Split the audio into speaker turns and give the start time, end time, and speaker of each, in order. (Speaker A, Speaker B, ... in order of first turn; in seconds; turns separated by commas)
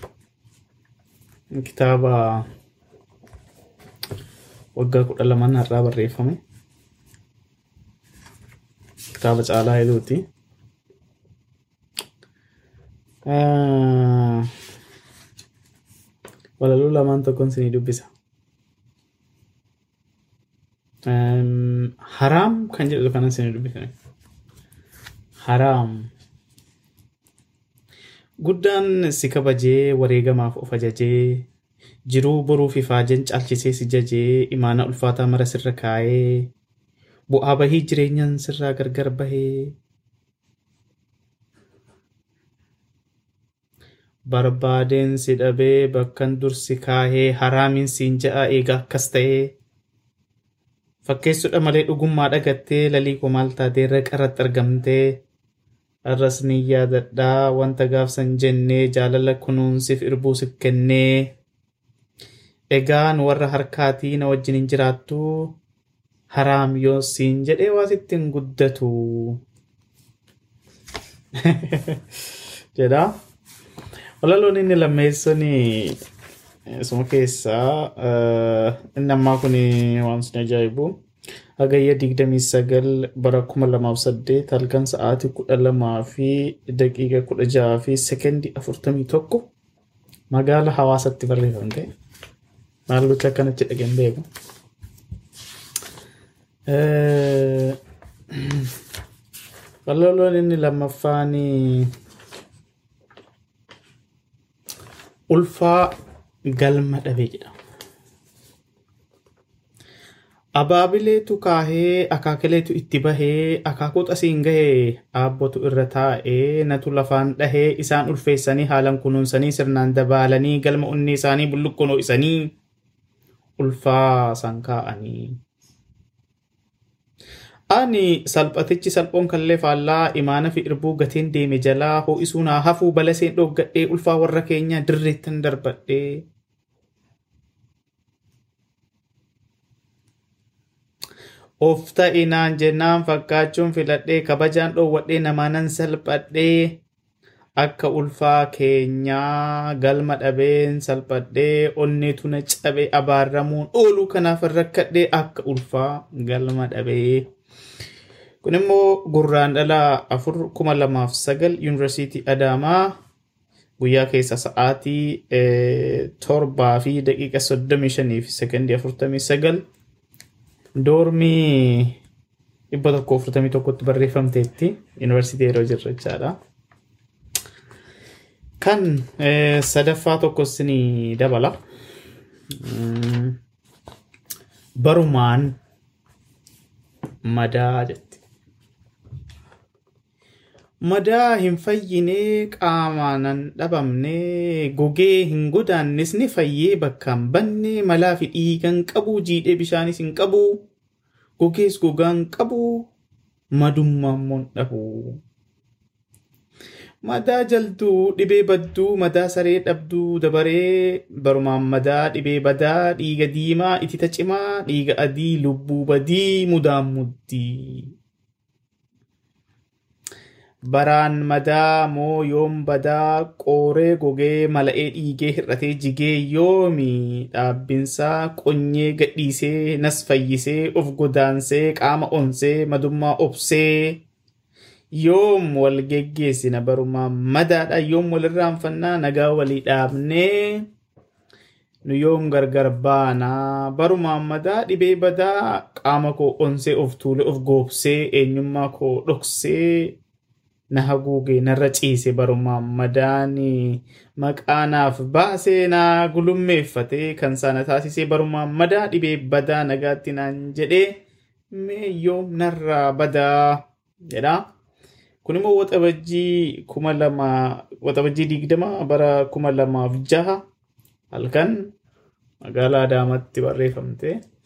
Speaker A: 1.5-2.5, Speaker A: 4.8-6.4, Speaker A: 9.1-10.2, Speaker A: 13.3-14.5, Speaker A: 16.6-18.1, Speaker A: 21.1-23.9, Speaker A: 25.4-26.1, Speaker A: 28.4-31.5, Speaker A: 32.1-36.5, Speaker A: 37.3-39.7, Speaker A: 44.3-49.5, Speaker A: 51.0-55.1, Speaker A: 56.1-61.3, Speaker A: 62.7-65.5, Speaker A: 66.3-69.4, Speaker A: 71.4-72.2, Speaker A: 72.7-73.1, Speaker A: 74.2-76.0, Speaker A: 76.7-81.0, Speaker A: 81.6-89.5, Speaker A: 90.3-91.9, Speaker A: 92.9-94.2, Speaker A: 96.7-97.8, Speaker A: 98.3-98.7, Speaker A: 99.8-101.9, Speaker A: 105.3-105.9, Speaker A: 106.5-107.5, Speaker A: 110.5-122.5, Speaker A: 123.6-125.4, Speaker A: 127.7-136.2, Speaker A: 141.6-146.8, Speaker A: 147.6-157.3, Speaker A: 158.4-162.9, Speaker A: 163.8-169.6, Speaker A: 170.8-172.0, Speaker A: 172.7-176.4, Speaker A: 178.6-181.6, Speaker A: 182.5-183.4, Speaker A: 184.8-185.6, Speaker A: 187.2-188.2, Speaker A: 190.8-200.6, Speaker A: 201.4-202.9, Speaker A: 203.5-205.2, Speaker A: 207.0-217.9, Speaker A: 220.7-234.0, Speaker A: 235.0-240.7, Speaker A: 241.8-250.0, Speaker A: 250.7-261.0, Speaker A: 261.5-264.4, Speaker A: 265.2-270.4, Speaker A: 271.1-271.7, Speaker A: 272.4-274.2